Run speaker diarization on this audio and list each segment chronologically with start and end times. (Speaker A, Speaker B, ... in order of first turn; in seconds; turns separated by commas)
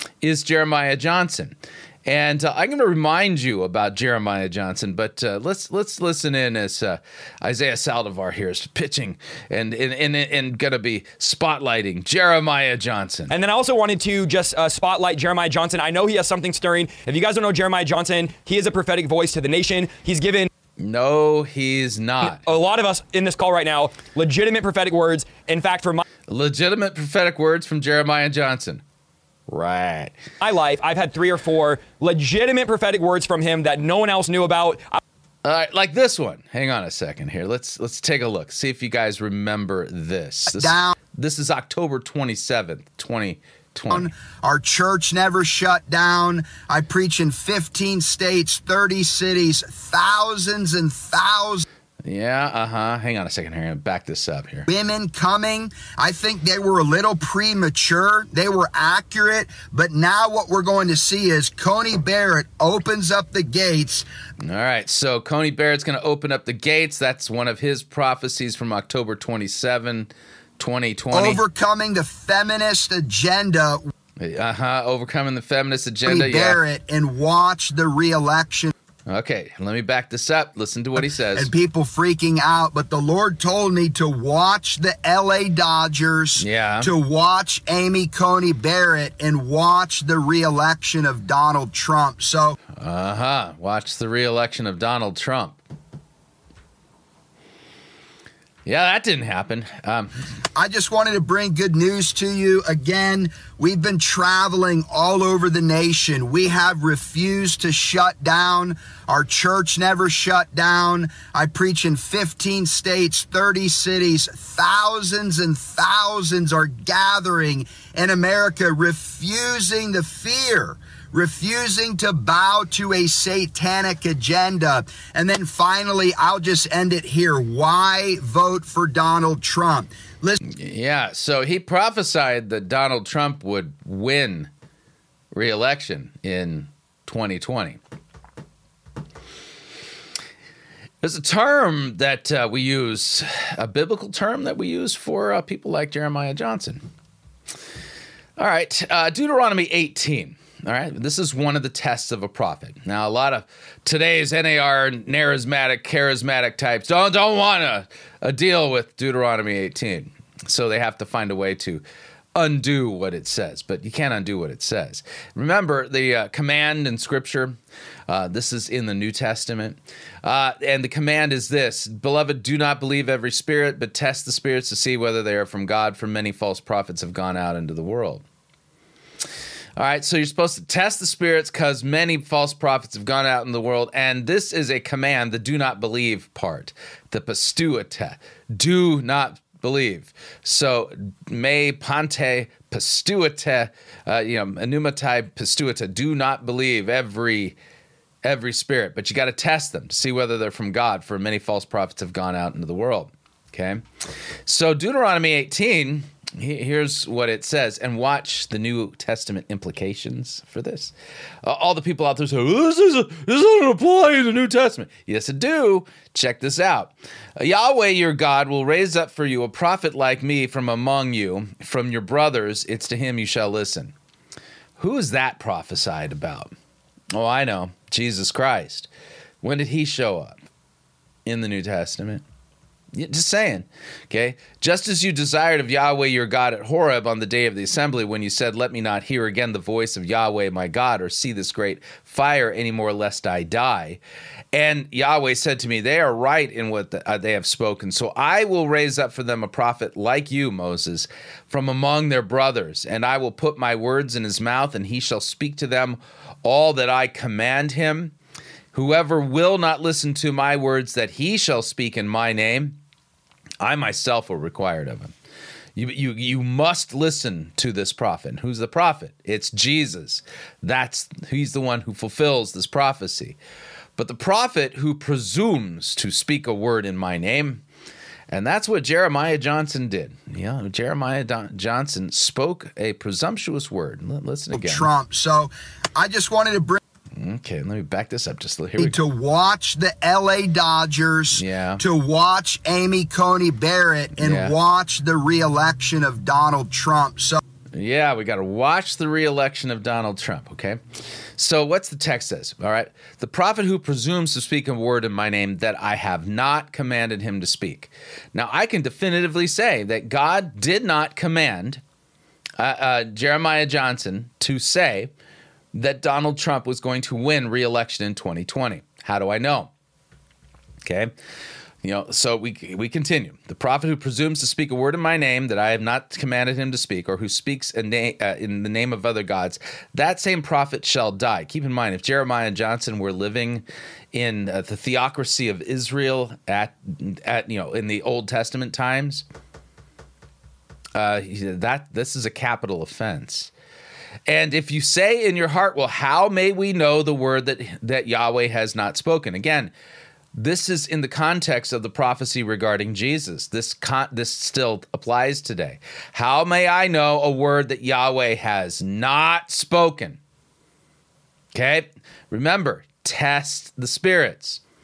Speaker A: 0.2-13.3, Speaker B: 13.3-20.5, Speaker A: 20.8-22.4, Speaker B: 22.4-26.0, Speaker A: 26.3-28.8, Speaker A: 29.5-30.1, Speaker B: 30.4-35.0, Speaker A: 35.4-44.1, Speaker C: 40.5-40.9, Speaker C: 43.9-51.6, Speaker A: 52.0-54.7, Speaker C: 54.7-64.1, Speaker A: 64.4-71.4, Speaker C: 71.1-73.9, Speaker A: 74.2-76.6, Speaker C: 76.0-78.7, Speaker A: 79.1-81.5, Speaker C: 81.3-92.6, Speaker A: 86.4-86.9, Speaker A: 92.8-95.6, Speaker A: 98.7-100.1, Speaker C: 100.5-130.4, Speaker A: 130.4-134.5, Speaker A: 135.3-137.8, Speaker A: 141.0-146.8, Speaker A: 148.4-161.8, Speaker A: 162.3-167.6, Speaker A: 168.1-178.2, Speaker A: 179.8-197.5, Speaker A: 198.2-203.8, Speaker A: 204.4-223.9, Speaker A: 224.8-226.5, Speaker A: 227.1-228.9, Speaker A: 229.4-230.3, Speaker A: 231.2-232.2, Speaker A: 232.9-244.0, Speaker A: 244.5-258.1, Speaker A: 258.7-262.8, Speaker A: 263.6-265.1, Speaker A: 265.8-273.4, Speaker A: 274.0-277.6, Speaker A: 278.3-284.9, Speaker C: 284.5-286.8, Speaker A: 287.1-289.0, Speaker C: 288.8-297.4, Speaker A: 291.3-291.8, Speaker A: 294.2-294.6, Speaker A: 297.7-300.8, Speaker A: 301.4-311.8, Speaker A: 312.6-315.1, Speaker A: 315.7-319.7, Speaker A: 320.8-321.1, Speaker A: 321.8-339.2, Speaker A: 340.9-343.5, Speaker A: 344.3-349.7, Speaker A: 350.3-360.2, Speaker A: 361.5-364.6